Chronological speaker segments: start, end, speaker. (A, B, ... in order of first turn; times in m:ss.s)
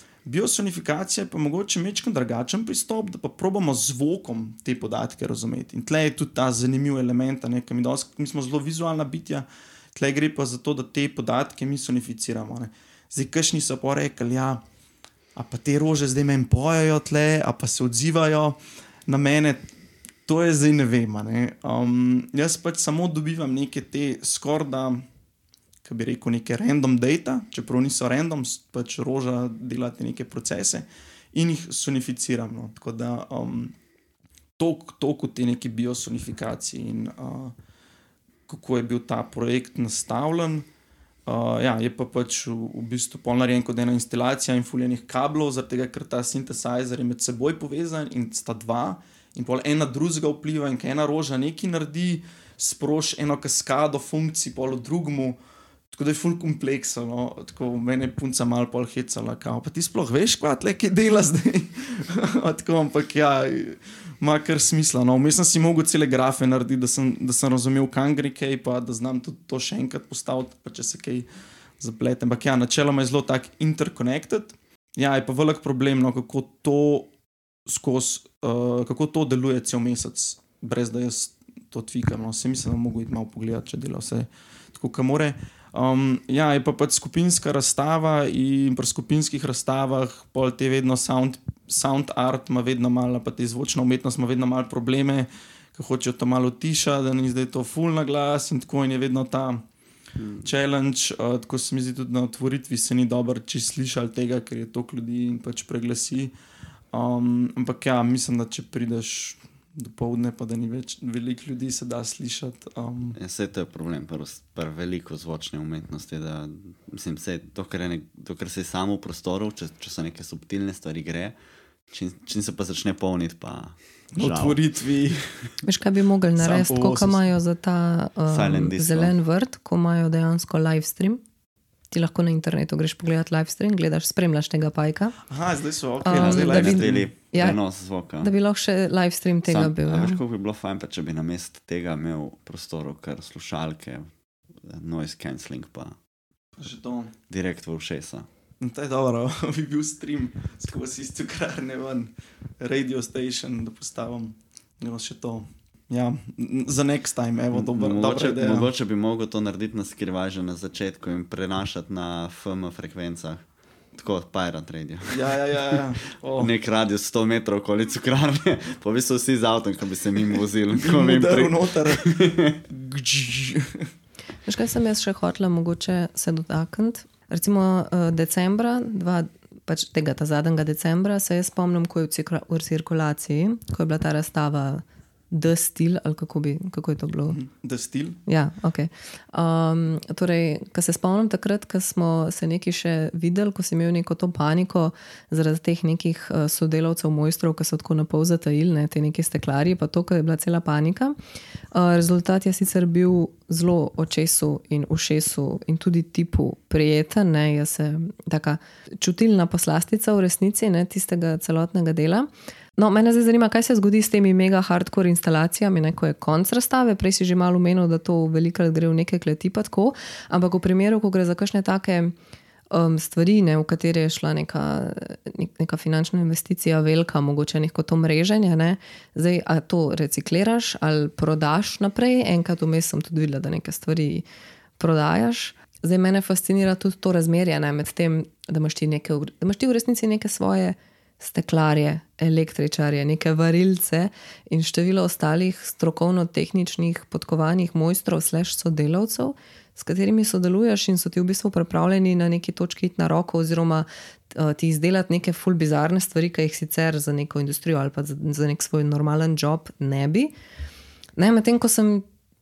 0:00.2-0:14.6 A
0:15.3-0:19.7 A
0:20.2-0:25.0 A
0:25.8-0:33.7 A
0:34.6-0:37.5 A
0:38.5-0:40.7 A
0:41.3-0:55.4 A
0:55.9-1:11.3 A
1:11.8-1:17.1 A
1:17.7-1:39.6 A
1:40.4-1:46.3 A
1:46.9-1:53.2 A
1:53.1-2:01.4 B
2:01.9-2:04.6 B
2:04.2-2:05.3 A
2:05.6-2:11.2 C
2:06.4-2:07.2 A
2:08.3-2:09.1 B
2:11.9-2:15.2 C
2:15.3-2:17.1 A
2:16.0-2:17.6 C
2:16.1-2:18.3 B
2:18.2-2:20.2 C
2:19.5-2:24.1 B
2:24.6-2:26.0 B
2:26.6-2:27.1 A
2:27.3-2:28.3 B
2:28.6-2:38.7 A
2:37.5-2:43.4 B
2:43.9-2:45.8 B
2:45.1-2:46.5 A
2:46.4-2:52.6 B
2:50.8-2:53.9 A
2:54.4-3:07.4 C
3:07.3-3:08.2 A
3:08.3-3:21.2 C
3:21.7-3:42.1 C
3:42.7-3:54.2 C
3:54.8-4:20.3 C
4:21.2-4:22.0 C